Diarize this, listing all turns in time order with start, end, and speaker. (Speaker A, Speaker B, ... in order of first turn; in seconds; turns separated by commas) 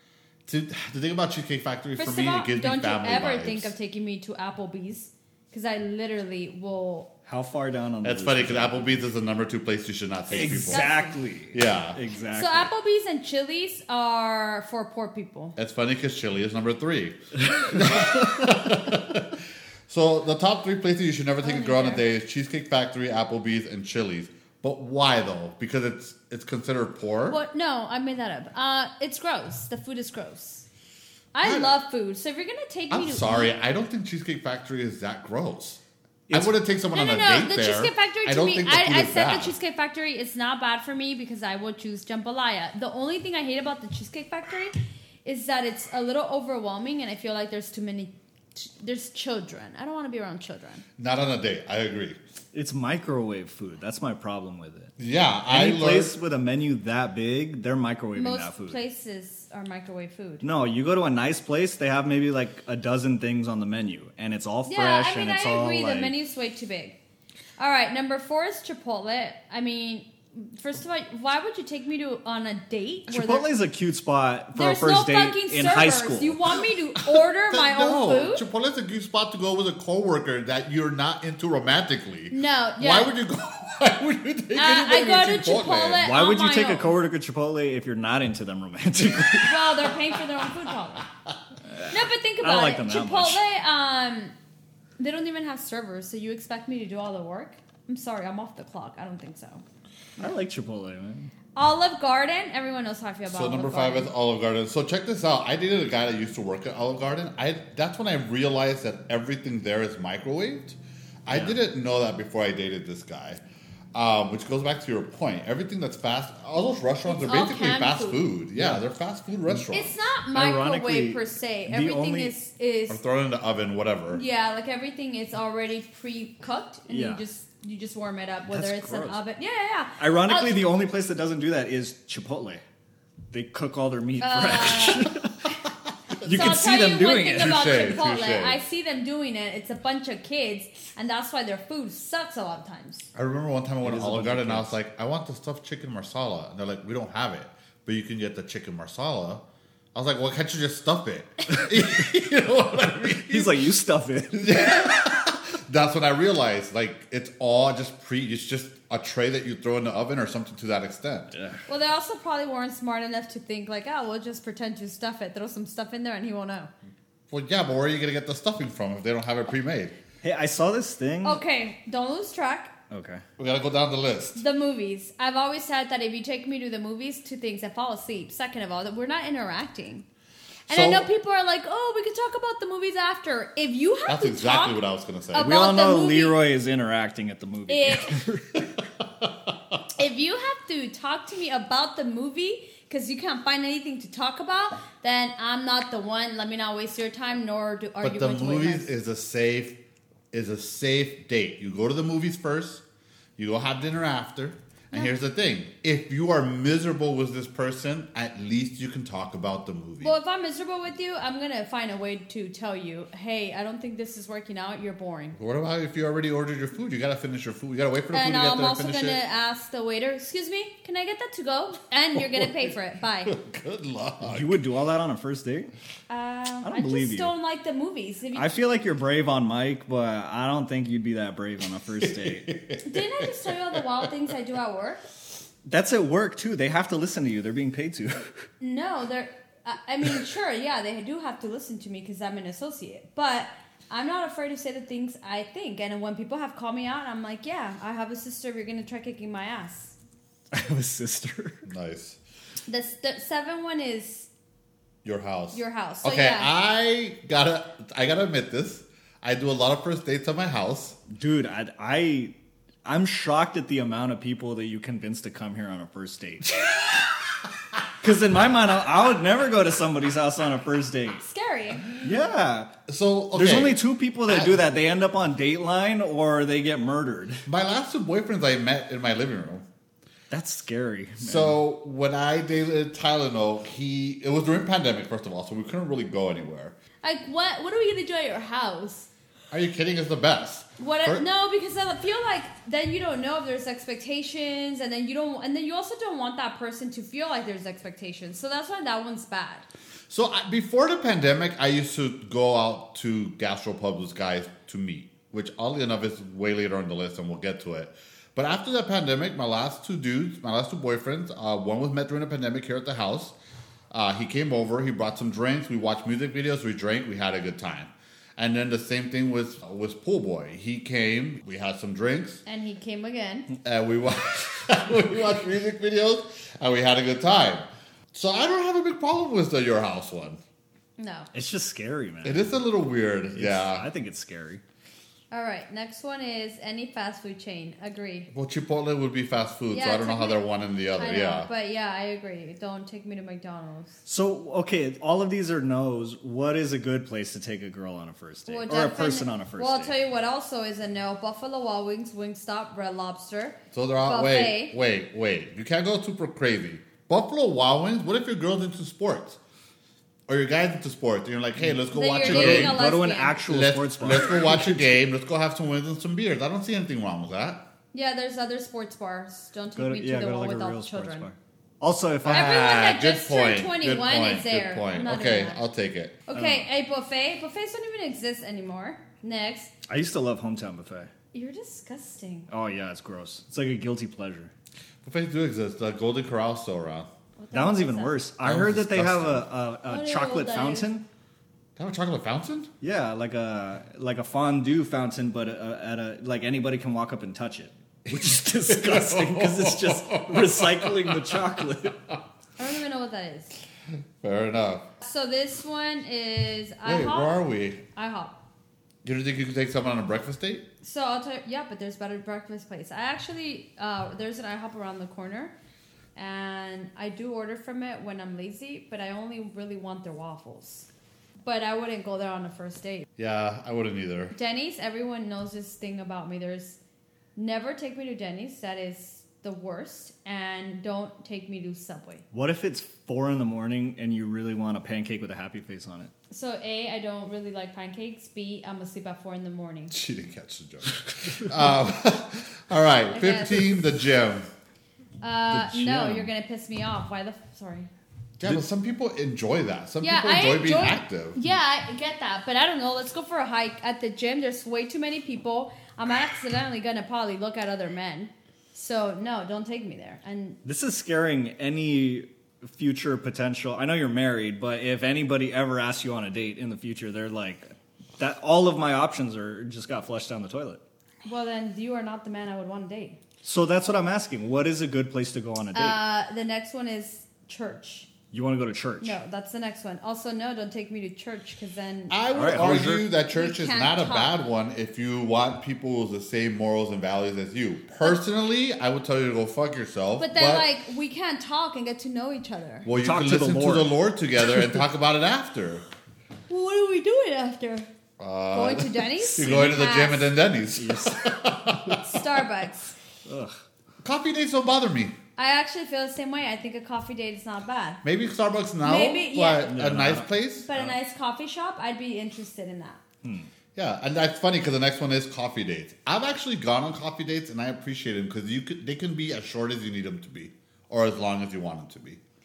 Speaker A: 0.5-3.7, Speaker B: 2.0-7.1, Speaker C: 7.2-9.0, Speaker A: 8.0-10.8, Speaker C: 10.3-12.7, Speaker B: 10.4-11.2, Speaker A: 11.5-12.0, Speaker B: 12.3-15.6, Speaker A: 15.6-27.4, Speaker B: 21.4-22.0, Speaker B: 27.3-30.6, Speaker B: 31.3-33.5, Speaker A: 31.4-31.7, Speaker A: 32.9-39.5, Speaker C: 36.3-36.5, Speaker B: 36.9-50.8, Speaker A: 51.0-52.2, Speaker C: 52.5-54.9, Speaker A: 55.0-56.1, Speaker C: 55.5-58.8, Speaker B: 58.1-60.4, Speaker C: 60.4-66.1, Speaker B: 64.6-67.0, Speaker B: 67.6-73.5, Speaker C: 73.1-76.6, Speaker B: 74.5-78.4, Speaker A: 77.5-86.1, Speaker B: 82.3-83.1, Speaker B: 84.5-86.9, Speaker C: 86.0-89.7, Speaker B: 89.4-91.1, Speaker C: 91.6-93.4, Speaker B: 91.9-94.3, Speaker B: 95.0-99.6, Speaker C: 100.2-101.3, Speaker B: 101.5-104.1, Speaker A: 103.3-113.4, Speaker C: 111.3-111.6, Speaker A: 113.9-120.0, Speaker B: 117.0-118.2, Speaker B: 119.7-123.0, Speaker C: 120.3-122.3, Speaker A: 122.9-124.2, Speaker B: 124.1-130.7, Speaker C: 126.9-127.2, Speaker C: 128.5-129.2, Speaker C: 130.0-132.6, Speaker C: 133.3-135.4, Speaker B: 134.2-135.2, Speaker C: 136.2-137.7, Speaker B: 136.2-143.1, Speaker A: 137.3-138.6, Speaker A: 143.1-149.4, Speaker C: 143.8-144.7, Speaker A: 149.9-153.6, Speaker C: 153.2-154.8, Speaker A: 154.3-161.3, Speaker C: 161.3-161.6, Speaker B: 161.7-166.7, Speaker A: 167.3-169.9, Speaker C: 170.2-171.4, Speaker B: 171.2-172.7, Speaker C: 172.9-173.2, Speaker A: 173.4-174.4, Speaker B: 174.3-180.0, Speaker B: 180.7-186.4, Speaker A: 180.7-181.1, Speaker A: 184.1-185.5, Speaker C: 185.4-188.8, Speaker B: 187.7-188.1, Speaker B: 189.9-198.9, Speaker A: 198.0-199.8, Speaker A: 200.3-202.8, Speaker A: 203.4-210.1, Speaker B: 210.0-215.4, Speaker A: 215.3-219.2, Speaker B: 218.1-223.3, Speaker A: 222.2-222.5, Speaker A: 223.2-224.5, Speaker C: 224.2-225.7, Speaker B: 226.1-228.5, Speaker C: 226.6-227.3, Speaker C: 228.3-232.5, Speaker A: 232.0-234.0, Speaker B: 232.8-235.0, Speaker C: 235.6-238.4, Speaker B: 238.6-249.9, Speaker C: 250.5-251.6, Speaker A: 251.7-252.2, Speaker B: 252.7-254.3, Speaker A: 255.0-261.0, Speaker B: 255.5-256.5, Speaker C: 261.1-262.3, Speaker C: 262.8-266.6, Speaker C: 268.0-271.2, Speaker B: 271.2-271.9, Speaker C: 271.9-272.7, Speaker A: 272.9-274.6, Speaker C: 273.3-277.4, Speaker A: 277.5-279.6, Speaker C: 280.3-281.6, Speaker A: 281.2-286.8, Speaker B: 287.0-289.1, Speaker A: 289.5-291.2, Speaker B: 290.8-299.6, Speaker A: 300.1-313.3, Speaker A: 313.9-322.4, Speaker B: 322.4-323.5, Speaker A: 323.6-330.4, Speaker B: 331.0-331.3, Speaker C: 331.3-332.6, Speaker A: 332.2-333.9, Speaker C: 333.3-334.6, Speaker B: 335.3-338.3, Speaker A: 338.3-341.5, Speaker B: 339.7-340.4, Speaker B: 341.0-344.0, Speaker C: 344.1-349.9, Speaker B: 348.5-354.7, Speaker A: 353.7-359.4, Speaker A: 360.3-362.8, Speaker C: 361.6-364.8, Speaker B: 361.9-363.4, Speaker A: 363.5-367.6, Speaker B: 367.9-371.3, Speaker C: 369.7-372.6, Speaker A: 372.2-376.2, Speaker B: 372.2-375.6, Speaker B: 376.3-379.7, Speaker C: 376.3-376.6, Speaker C: 379.9-381.1, Speaker B: 381.3-382.5, Speaker C: 382.5-384.5, Speaker A: 385.0-387.1, Speaker B: 387.4-388.2, Speaker C: 387.5-391.0, Speaker A: 388.4-389.4, Speaker B: 389.9-390.9, Speaker A: 391.8-392.7, Speaker C: 392.8-402.0, Speaker A: 398.2-401.4, Speaker B: 402.6-403.5, Speaker A: 404.2-404.9, Speaker B: 405.0-408.3, Speaker A: 406.8-407.8, Speaker A: 409.0-410.6, Speaker B: 410.8-415.5, Speaker B: 416.1-420.9, Speaker B: 421.4-423.1, Speaker A: 423.2-424.3, Speaker B: 424.3-426.8, Speaker B: 427.4-432.2, Speaker C: 432.3-436.1, Speaker B: 436.3-439.9, Speaker A: 439.9-444.5, Speaker C: 441.1-441.4, Speaker B: 443.1-443.8, Speaker B: 445.2-447.9, Speaker C: 445.5-446.2, Speaker A: 445.6-446.0, Speaker A: 448.4-451.4, Speaker B: 450.0-460.6, Speaker C: 460.6-470.8, Speaker B: 471.2-473.2, Speaker C: 473.4-476.0, Speaker B: 475.7-478.1, Speaker C: 478.3-479.2, Speaker B: 479.0-482.1, Speaker A: 482.1-490.7, Speaker C: 482.3-483.1, Speaker B: 483.1-484.3, Speaker B: 490.2-492.9, Speaker A: 492.8-495.8, Speaker C: 492.9-493.9, Speaker B: 496.5-497.9, Speaker A: 498.2-502.1, Speaker B: 498.5-500.3, Speaker C: 499.3-499.8, Speaker C: 500.8-502.0, Speaker B: 502.0-502.9, Speaker C: 503.2-503.6, Speaker A: 504.0-505.1, Speaker B: 505.4-508.0, Speaker A: 508.0-510.7, Speaker B: 508.8-509.7, Speaker C: 509.6-511.0, Speaker B: 510.6-513.0, Speaker C: 513.2-513.5, Speaker A: 513.8-522.2